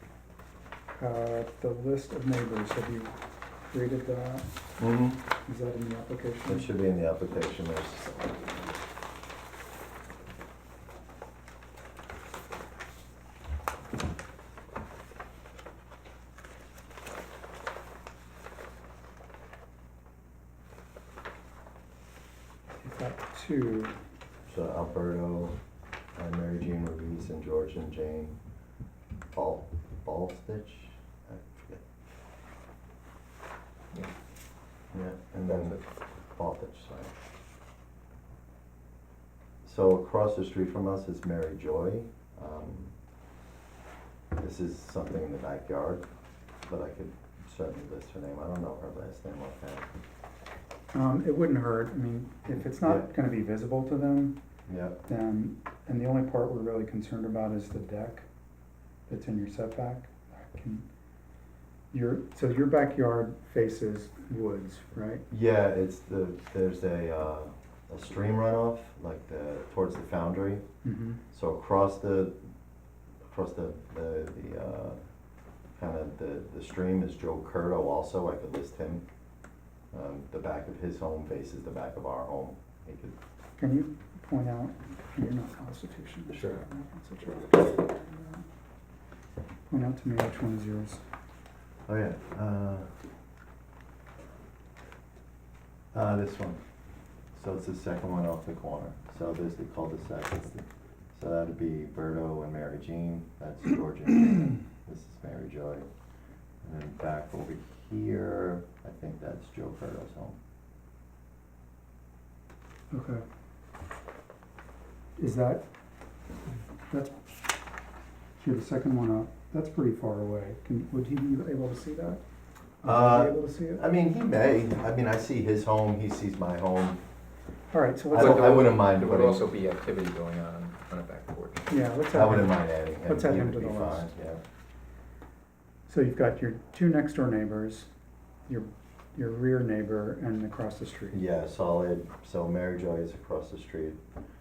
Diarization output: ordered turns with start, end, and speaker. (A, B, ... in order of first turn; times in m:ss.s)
0:01.0-0:03.1 A
0:03.7-0:04.5 A
0:04.8-0:05.2 B
0:05.5-0:06.7 A
0:06.4-0:08.2 B
0:22.8-0:24.0 A
0:24.5-0:25.6 B
0:26.2-0:28.4 B
0:29.3-0:31.8 B
0:34.9-0:35.8 B
0:35.5-0:35.8 C
0:36.4-0:37.1 B
0:39.6-0:42.9 B
0:44.4-0:46.1 B
0:46.7-0:49.9 B
0:50.9-0:54.4 A
0:52.7-0:53.1 B
0:54.7-0:55.0 B
0:55.0-0:58.2 A
0:59.1-1:00.8 A
1:01.9-1:05.2 A
1:05.3-1:10.6 B
1:10.8-1:11.2 A
1:11.3-1:12.4 B
1:13.3-1:15.0 B
1:15.8-1:19.0 B
1:19.9-1:23.2 B
1:23.6-1:28.5 A
1:26.3-1:26.6 B
1:29.7-1:31.0 A
1:31.9-1:32.9 B
1:35.9-1:36.6 B
1:37.4-1:45.9 B
1:46.6-1:50.4 B
1:52.9-1:53.2 A
1:55.2-1:55.6 A
1:56.9-1:57.2 A
1:58.4-2:02.2 A
2:02.8-2:03.8 A
2:02.8-2:07.0 B
2:07.7-2:08.7 A
2:08.1-2:09.4 B
2:08.1-2:11.7 C
2:11.7-2:14.1 A
2:12.1-2:14.4 B
2:15.9-2:17.9 A
2:18.5-2:21.2 A
2:21.1-2:24.0 B